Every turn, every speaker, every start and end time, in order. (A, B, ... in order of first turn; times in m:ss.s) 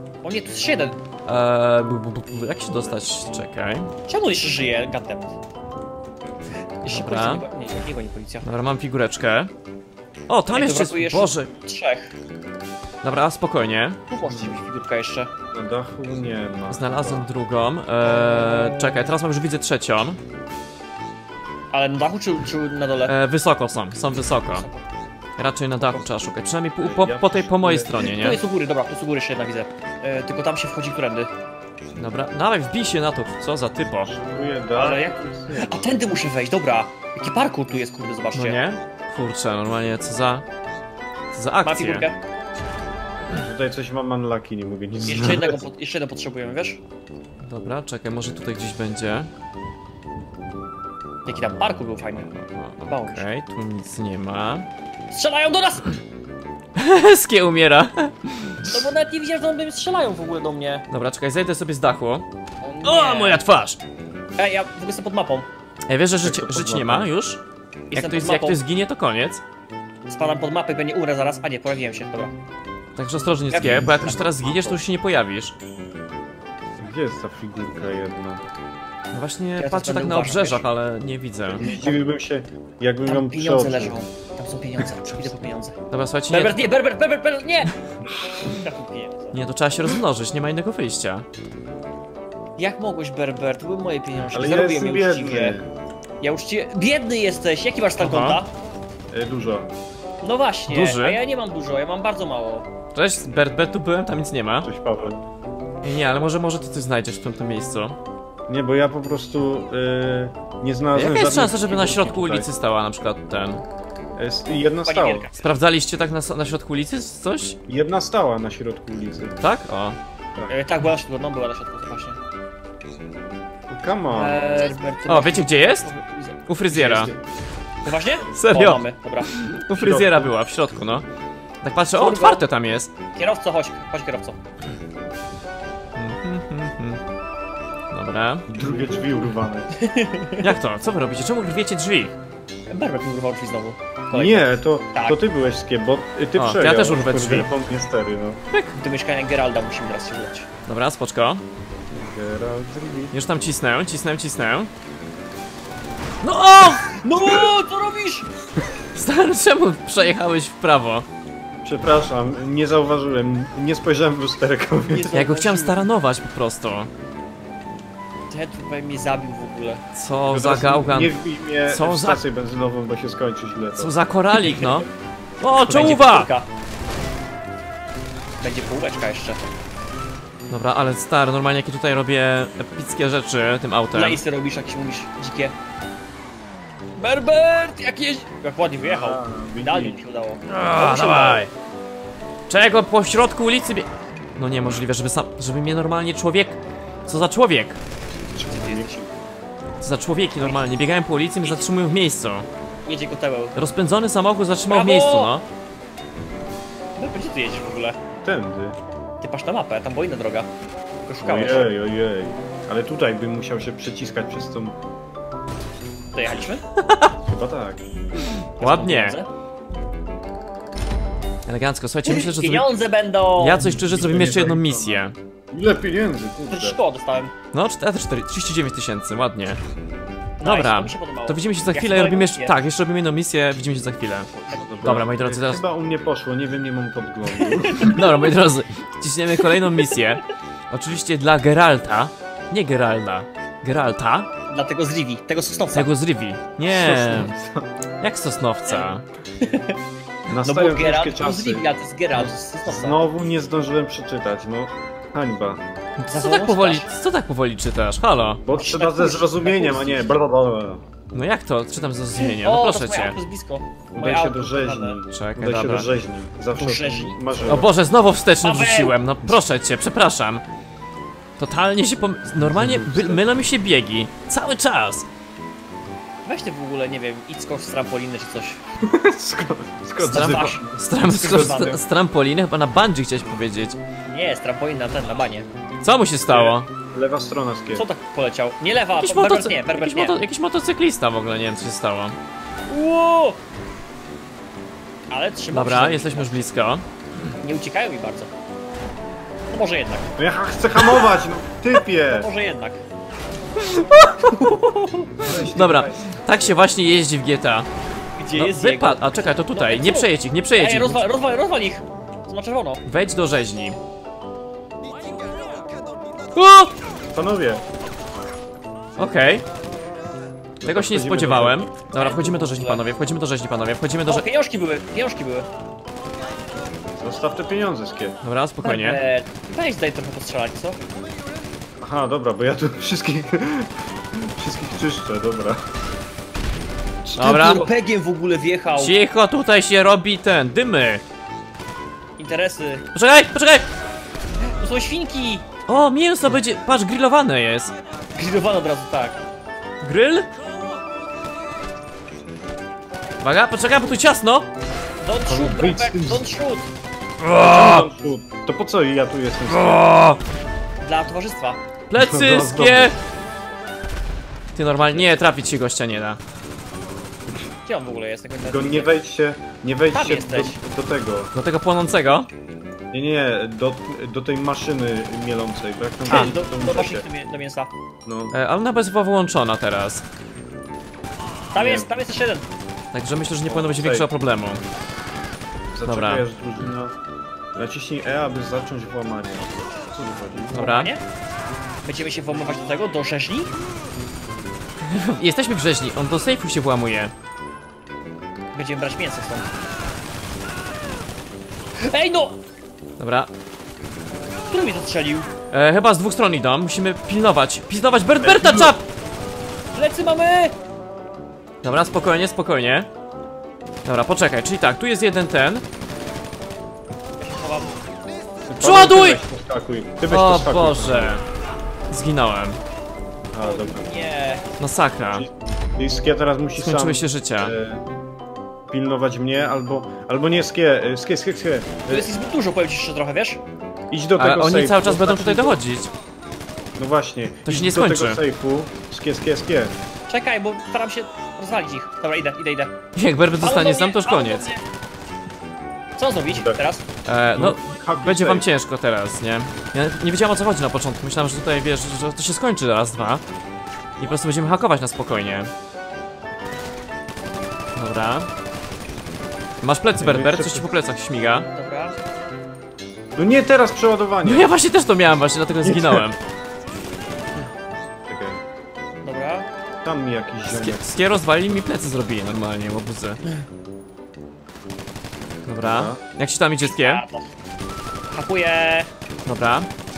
0:00.2-0:01.0 A
0:01.3-0:03.9 B
0:02.7-0:03.5 C
0:04.1-0:05.4 A
0:06.8-0:08.5 A
0:06.9-0:07.4 B
0:08.4-0:09.5 B
0:10.3-0:11.5 B
0:10.5-0:12.1 A
0:13.0-0:14.0 B
0:14.1-0:15.3 A
0:14.2-0:14.6 C
0:15.5-0:17.3 C
0:16.7-0:20.2 B
0:21.7-0:23.1 A
0:23.1-0:24.7 B
0:24.5-0:24.8 A
0:25.4-0:28.4 B
0:26.8-0:28.0 C
0:28.0-0:31.3 A
0:32.0-0:34.1 B
0:34.0-0:36.0 C
0:34.8-0:38.6 A
0:38.3-0:40.4 B
0:41.3-0:42.1 B
0:41.6-0:42.2 A
0:43.3-0:45.6 C
0:45.0-0:46.8 A
0:47.4-0:49.3 B
0:51.3-0:52.3 A
0:52.3-0:54.7 B
0:52.9-0:53.3 A
0:55.1-0:55.9 A
0:56.8-0:58.8 B
0:58.7-1:00.9 A
1:00.9-1:02.3 B
1:02.6-1:03.4 A
1:02.8-1:03.8 B
1:04.4-1:05.5 A
1:05.9-1:07.4 B
1:06.2-1:07.1 C
1:07.9-1:08.6 A
1:07.9-1:09.4 B
1:10.1-1:12.3 A
1:13.0-1:15.6 B
1:13.5-1:14.8 A
1:13.6-1:14.2 C
1:16.8-1:18.4 C
1:19.1-1:21.6 B
1:19.6-1:20.7 A
1:21.5-1:24.0 C
1:21.6-1:22.0 A
1:23.0-1:25.8 A
1:25.9-1:26.7 B
1:26.3-1:27.7 A
1:28.3-1:29.4 A
1:29.3-1:31.3 B
1:32.6-1:35.6 A
1:34.3-1:35.7 C
1:36.2-1:38.5 A
1:38.0-1:38.4 B
1:39.1-1:39.7 C
1:40.2-1:42.7 A
1:40.7-1:41.2 B
1:43.0-1:44.7 B
1:44.6-1:45.2 C
1:45.8-1:48.0 B
1:48.5-1:52.5 C
1:50.9-1:53.6 B
1:54.2-1:55.3 C
1:54.9-1:55.4 A
1:55.4-1:57.6 B
1:57.7-1:59.4 C
1:59.4-2:00.0 B
2:00.5-2:02.2 A
2:03.7-2:04.5 C
2:04.1-2:06.4 A
2:05.1-2:05.9 B
2:06.5-2:07.1 B
2:06.7-2:07.2 C
2:07.8-2:09.4 A
2:08.3-2:11.0 B
2:09.8-2:10.3 C
2:11.6-2:12.9 B
2:11.9-2:12.4 A
2:13.2-2:14.4 A
2:16.0-2:17.0 B
2:17.9-2:18.5 B
2:18.5-2:19.7 C
2:19.8-2:20.5 A
2:20.4-2:22.1 B
2:22.7-2:25.2 A
2:24.1-2:28.4 C
2:26.4-2:27.5 B
2:28.8-2:30.5 A
2:30.7-2:31.4 B
2:31.9-2:33.2 C
2:33.1-2:34.7 B
2:36.2-2:36.9 B
2:36.9-2:38.3 A
2:39.0-2:41.1 B
2:41.6-2:45.2 C
2:44.9-2:45.8 A
2:45.2-2:46.9 B
2:48.3-2:49.8 A
2:49.9-2:51.2 B
2:50.3-2:53.9 C
2:51.7-2:52.2 B
2:53.8-2:54.9 B
2:54.4-2:54.7 A
2:55.4-2:56.3 B
2:55.7-2:56.5 A
2:58.4-2:59.5 A
3:00.5-3:04.2 B
3:03.9-3:05.6 A
3:07.0-3:11.5 A
3:08.8-3:10.0 C
3:10.5-3:11.5 B
3:12.5-3:17.8 B
3:18.3-3:19.1 C
3:18.5-3:18.9 A
3:19.8-3:22.5 B
3:21.4-3:21.8 A
3:22.9-3:23.6 A
3:23.6-3:25.4 B
3:24.7-3:25.3 A
3:27.0-3:28.0 A
3:28.1-3:28.8 C
3:29.2-3:30.5 A
3:31.1-3:31.7 A
3:31.2-3:34.8 C
3:36.2-3:36.6 A
3:36.8-3:37.1 B
3:37.2-3:37.8 C
3:38.2-3:39.2 B
3:38.6-3:39.3 A
3:41.5-3:42.7 B
3:42.1-3:43.6 A
3:43.4-3:45.2 B
3:43.6-3:46.8 C
3:46.5-3:47.3 A
3:47.5-3:49.6 B
3:50.4-3:52.6 A
3:50.4-3:54.3 B
3:54.5-3:58.0 C
3:54.5-3:54.8 A
3:54.8-3:55.6 B
3:57.4-3:58.0 A
3:57.8-4:04.3 B
4:04.5-4:05.9 A
4:05.7-4:07.4 B
4:06.7-4:07.7 C
4:08.0-4:09.0 B
4:08.7-4:09.8 A
4:10.3-4:15.6 C
4:10.4-4:13.0 A
4:16.0-4:18.4 B
4:16.1-4:16.9 A
4:18.4-4:20.8 C
4:18.5-4:20.1 A
4:21.1-4:23.2 B
4:22.2-4:25.0 A
4:23.9-4:27.8 C
4:25.1-4:25.9 B
4:26.6-4:27.2 A
4:27.5-4:30.4 B
4:28.4-4:29.0 A
4:31.4-4:35.1 B
4:32.5-4:33.3 C
4:36.2-4:38.6 A
4:38.8-4:41.8 C
4:40.0-4:41.8 A
4:40.0-4:43.8 B
4:44.1-4:45.5 A
4:45.8-4:46.7 B
4:46.3-4:47.8 C
4:47.8-4:50.2 A
4:49.0-4:52.2 B
4:52.7-4:53.4 A
4:55.1-4:56.5 A
4:55.5-4:56.8 B
4:57.4-4:58.3 A
4:59.5-5:00.1 A
5:00.2-5:02.3 C
5:02.1-5:02.8 A
5:03.6-5:04.6 B
5:04.3-5:05.1 A
5:05.2-5:06.4 C
5:05.2-5:07.7 B
5:08.2-5:12.8 A
5:08.3-5:11.0 B
5:12.9-5:13.8 B
5:16.4-5:16.7 B
5:17.1-5:17.6 C
5:19.0-5:19.4 B
5:20.6-5:21.7 C
5:20.6-5:24.3 B
5:21.9-5:22.8 A
5:24.1-5:25.5 A
5:27.0-5:28.2 C
5:28.2-5:29.0 B
5:28.6-5:30.8 A
5:31.8-5:35.7 C
5:37.0-5:37.7 C
5:37.2-5:37.6 B
5:37.2-5:38.9 A
5:38.8-5:41.0 B
5:42.2-5:42.9 A
5:42.9-5:43.7 B
5:44.4-5:45.5 A
5:45.7-5:47.7 B
5:48.2-5:49.2 A
5:49.8-5:50.3 B
5:53.2-5:54.5 B
5:55.0-5:56.7 A
5:55.3-5:56.3 C
5:57.2-5:57.9 B
5:57.3-5:59.8 C
5:59.5-6:00.2 B
6:00.8-6:01.6 A
6:01.9-6:03.0 B
6:02.0-6:02.9 C
6:04.6-6:06.2 B
6:07.7-6:08.9 A
6:08.5-6:11.3 C
6:09.9-6:10.6 A
6:11.3-6:12.3 B
6:12.9-6:17.1 C
6:16.1-6:17.7 A
6:18.1-6:18.3 C
6:18.3-6:20.0 B
6:21.5-6:22.5 A
6:21.6-6:21.9 C
6:22.9-6:24.6 B
6:23.5-6:24.1 C
6:25.7-6:27.0 C
6:25.9-6:26.3 B
6:27.6-6:30.6 C
6:30.5-6:30.9 B
6:30.5-6:31.0 A
6:31.8-6:33.5 A
6:34.8-6:37.1 B
6:38.5-6:39.5 A
6:41.8-6:42.4 A
6:43.0-6:43.3 B
6:44.5-6:45.3 A
6:45.5-6:48.8 B
6:48.2-6:48.8 C
6:49.7-6:50.5 A
6:51.6-6:52.9 B
6:53.8-6:55.6 B
6:57.2-6:57.8 A
6:58.5-7:01.2 C
6:58.6-6:59.2 B
7:00.1-7:01.2 B
7:01.9-7:02.6 B
7:03.3-7:03.9 C
7:03.4-7:04.4 A
7:04.6-7:05.3 B
7:05.1-7:07.8 C
7:06.6-7:07.6 B
7:08.7-7:12.2 C
7:11.9-7:13.4 A
7:13.9-7:15.6 C
7:14.2-7:15.9 B
7:16.8-7:19.8 C
7:17.5-7:18.2 B
7:20.1-7:22.8 A
7:23.0-7:24.5 B
7:23.4-7:24.6 A
7:26.0-7:26.8 A
7:26.3-7:26.6 C
7:27.0-7:33.2 B
7:27.4-7:28.5 C
7:34.0-7:35.5 B
7:37.8-7:38.3 B
7:39.6-7:41.5 B
7:40.0-7:40.7 C
7:41.5-7:42.0 A
7:43.2-7:44.5 C
7:44.2-7:46.2 B
7:45.6-7:46.1 C
7:48.1-7:48.4 C
7:49.0-7:49.5 A
7:49.8-7:50.8 C
7:50.5-7:53.2 B
7:55.5-7:57.0 B
7:55.6-7:56.0 C
7:56.6-7:57.3 A
7:58.1-7:58.9 A
7:59.3-7:59.7 B